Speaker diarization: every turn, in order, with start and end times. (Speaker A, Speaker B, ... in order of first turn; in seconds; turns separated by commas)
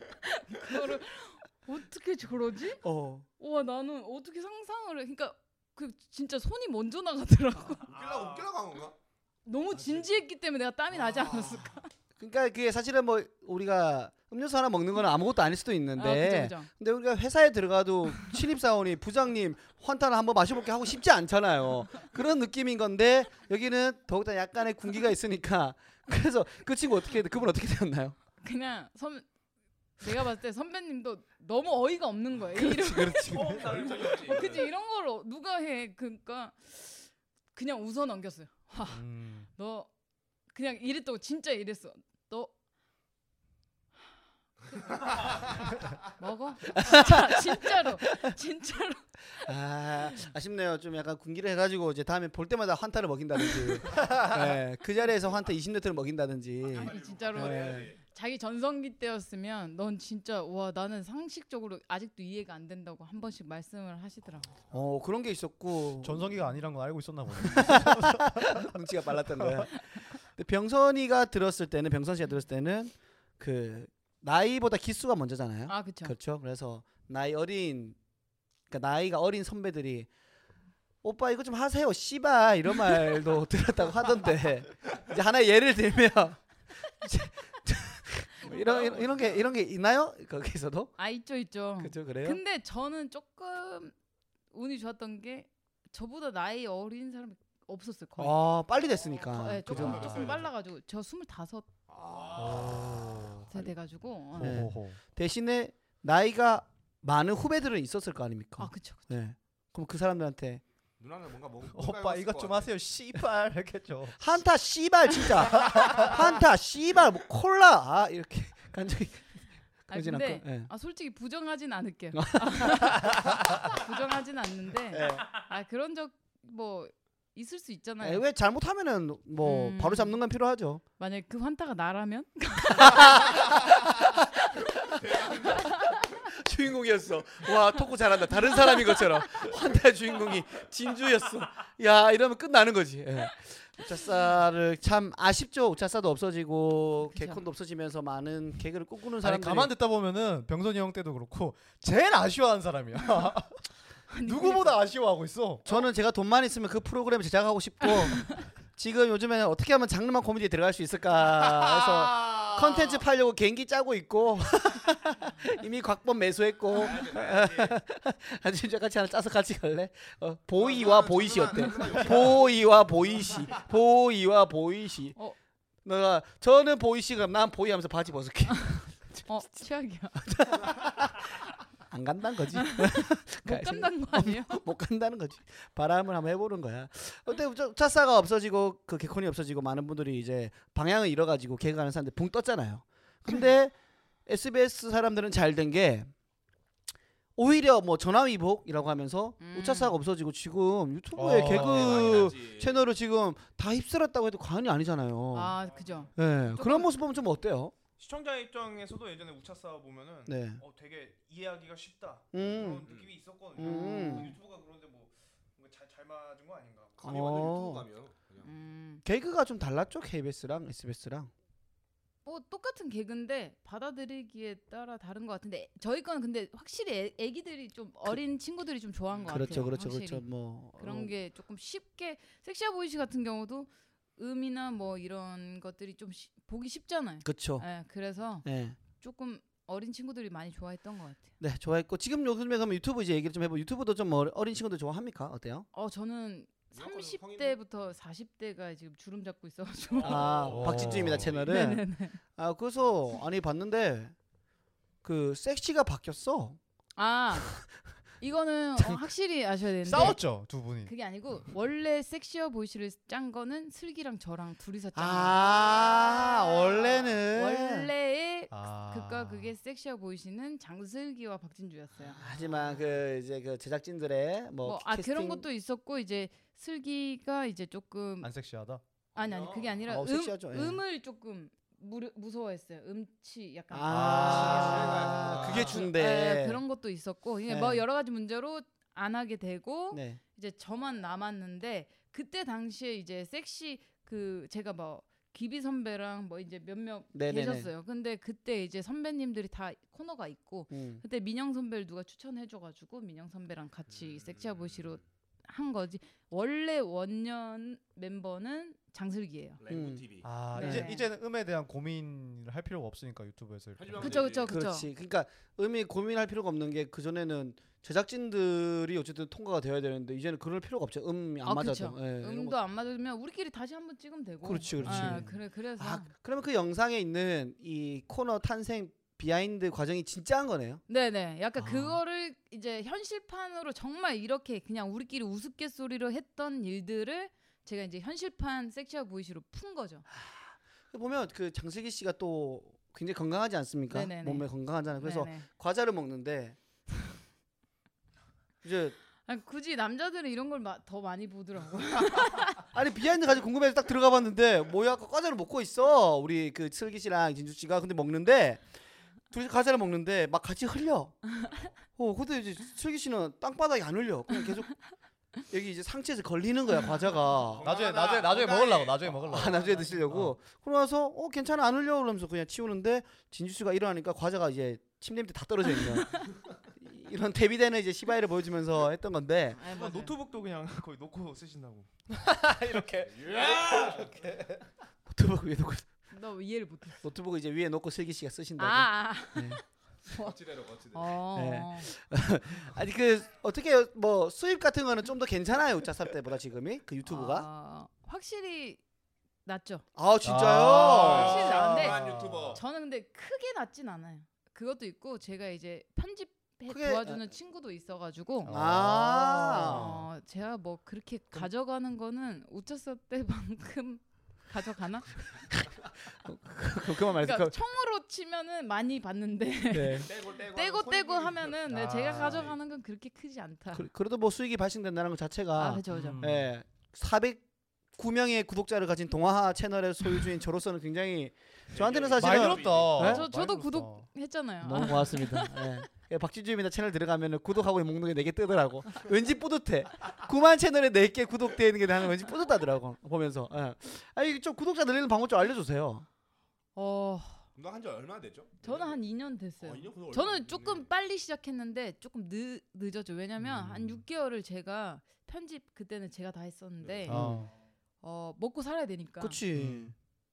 Speaker A: 0.2-2.8, Speaker B: 2.8-3.2, Speaker A: 3.4-7.9, Speaker C: 7.9-8.9, Speaker D: 7.9-8.5, Speaker A: 9.4-11.9, Speaker C: 9.7-10.2, Speaker C: 10.9-11.7, Speaker B: 12.2-28.1, Speaker A: 15.9-16.7, Speaker A: 28.4-29.2, Speaker A: 30.0-39.9, Speaker B: 32.5-34.0, Speaker C: 33.3-34.6, Speaker D: 33.3-34.1, Speaker E: 38.9-39.5, Speaker A: 40.5-42.5, Speaker A: 46.2-49.5, Speaker B: 46.7-48.0, Speaker B: 49.4-57.9, Speaker C: 56.6-58.0, Speaker A: 56.7-64.5, Speaker B: 64.7-66.3, Speaker E: 66.0-69.7, Speaker B: 67.4-78.0, Speaker A: 75.7-76.1, Speaker B: 78.7-80.1, Speaker B: 81.0-90.9, Speaker C: 88.5-89.4, Speaker A: 91.0-93.9, Speaker B: 91.8-92.4, Speaker A: 94.5-98.4, Speaker B: 98.2-100.3, Speaker A: 99.3-101.7, Speaker C: 99.7-100.5, Speaker C: 101.9-103.3, Speaker E: 102.3-103.7, Speaker A: 103.5-104.6, Speaker E: 104.4-105.0, Speaker B: 104.4-110.6, Speaker A: 108.6-109.1, Speaker C: 111.0-112.7, Speaker E: 111.7-114.3, Speaker B: 114.2-119.4, Speaker E: 115.6-116.1, Speaker B: 119.9-120.7, Speaker A: 119.9-128.2, Speaker B: 122.1-123.5, Speaker B: 124.9-125.3, Speaker B: 128.0-130.8, Speaker A: 129.4-130.2, Speaker A: 131.0-133.5, Speaker B: 132.7-134.1, Speaker B: 134.8-135.7, Speaker C: 134.9-136.0, Speaker A: 135.6-135.9, Speaker B: 136.4-149.7, Speaker A: 147.1-147.4, Speaker E: 149.2-153.6, Speaker A: 154.1-154.8, Speaker E: 154.2-155.7, Speaker B: 155.7-175.2, Speaker C: 161.4-163.0, Speaker C: 166.7-167.8, Speaker C: 170.6-173.7, Speaker B: 175.8-179.3, Speaker A: 178.5-180.2, Speaker B: 180.2-181.3, Speaker B: 181.8-193.7, Speaker A: 183.4-184.6, Speaker B: 194.2-196.1, Speaker B: 197.3-205.6, Speaker A: 199.4-200.0, Speaker E: 201.2-202.3, Speaker C: 201.3-202.9, Speaker A: 205.3-206.9, Speaker D: 205.6-206.1, Speaker B: 206.2-207.7, Speaker D: 208.0-217.0, Speaker B: 210.2-210.6, Speaker B: 212.3-212.8, Speaker C: 212.4-213.2, Speaker B: 213.6-214.3, Speaker A: 213.6-214.3, Speaker C: 217.0-218.5, Speaker B: 217.0-217.9, Speaker A: 218.4-219.0, Speaker B: 219.0-221.3, Speaker A: 222.2-241.3, Speaker C: 229.1-229.6, Speaker B: 229.3-231.1, Speaker B: 237.2-237.7, Speaker B: 238.4-238.8, Speaker B: 241.4-245.7, Speaker A: 245.7-250.6, Speaker C: 246.7-247.9, Speaker C: 249.9-251.5, Speaker B: 250.0-254.1, Speaker E: 250.5-251.3, Speaker A: 251.4-252.2, Speaker B: 255.0-256.6, Speaker A: 256.9-257.5, Speaker A: 258.2-260.2, Speaker E: 259.8-260.9, Speaker A: 260.8-272.2, Speaker B: 264.9-267.9, Speaker E: 268.5-269.5, Speaker B: 272.2-275.4, Speaker C: 272.2-272.5, Speaker A: 274.6-278.3, Speaker E: 278.2-278.8, Speaker C: 279.1-279.8, Speaker A: 279.1-309.6, Speaker B: 279.9-280.8, Speaker B: 283.7-286.6, Speaker E: 283.9-285.0, Speaker C: 284.3-285.9, Speaker B: 287.5-287.8, Speaker B: 289.9-290.2, Speaker B: 297.1-297.7, Speaker B: 300.7-301.0, Speaker C: 303.9-305.0, Speaker C: 309.6-310.4, Speaker B: 309.7-310.9, Speaker E: 310.2-314.2, Speaker A: 310.5-311.1, Speaker C: 313.8-314.5, Speaker A: 314.0-314.9, Speaker B: 314.5-322.6, Speaker A: 321.4-326.1, Speaker B: 324.4-330.8, Speaker E: 324.8-325.3, Speaker A: 330.9-340.1, Speaker B: 331.6-332.0, Speaker B: 340.1-346.6, Speaker A: 343.9-345.4, Speaker B: 348.6-348.9, Speaker A: 349.2-352.6, Speaker B: 352.7-358.6, Speaker B: 359.3-364.9, Speaker B: 365.5-367.7, Speaker C: 367.5-369.6, Speaker E: 367.6-370.4, Speaker B: 369.2-379.6, Speaker A: 379.6-380.1, Speaker D: 379.6-382.1, Speaker E: 382.3-383.1, Speaker C: 383.0-384.2, Speaker B: 385.1-385.9, Speaker A: 386.1-387.0, Speaker B: 387.0-389.6, Speaker A: 388.6-390.3, Speaker C: 390.1-391.2, Speaker A: 390.9-391.9, Speaker B: 391.3-397.4, Speaker A: 397.0-398.8, Speaker A: 399.4-399.8, Speaker B: 399.9-401.5, Speaker E: 400.2-402.6, Speaker C: 400.8-402.6, Speaker A: 401.0-402.0, Speaker A: 402.5-408.5, Speaker B: 406.7-407.3, Speaker E: 408.4-410.0, Speaker B: 408.5-410.0, Speaker A: 409.2-415.2, Speaker B: 416.2-417.5, Speaker A: 417.1-423.9, Speaker B: 419.7-420.1, Speaker C: 420.0-422.6, Speaker E: 421.7-422.5, Speaker B: 423.7-433.2, Speaker A: 425.6-426.2, Speaker E: 425.9-426.5, Speaker C: 431.7-433.0, Speaker E: 432.1-434.1, Speaker A: 432.9-435.8, Speaker B: 434.6-446.1, Speaker A: 446.7-447.4, Speaker C: 447.5-449.0, Speaker A: 448.6-457.2, Speaker C: 449.6-450.9, Speaker E: 453.4-454.0, Speaker C: 456.8-457.1, Speaker E: 457.1-457.5, Speaker B: 457.1-457.4, Speaker A: 458.0-459.4, Speaker B: 459.2-459.9, Speaker E: 459.5-459.9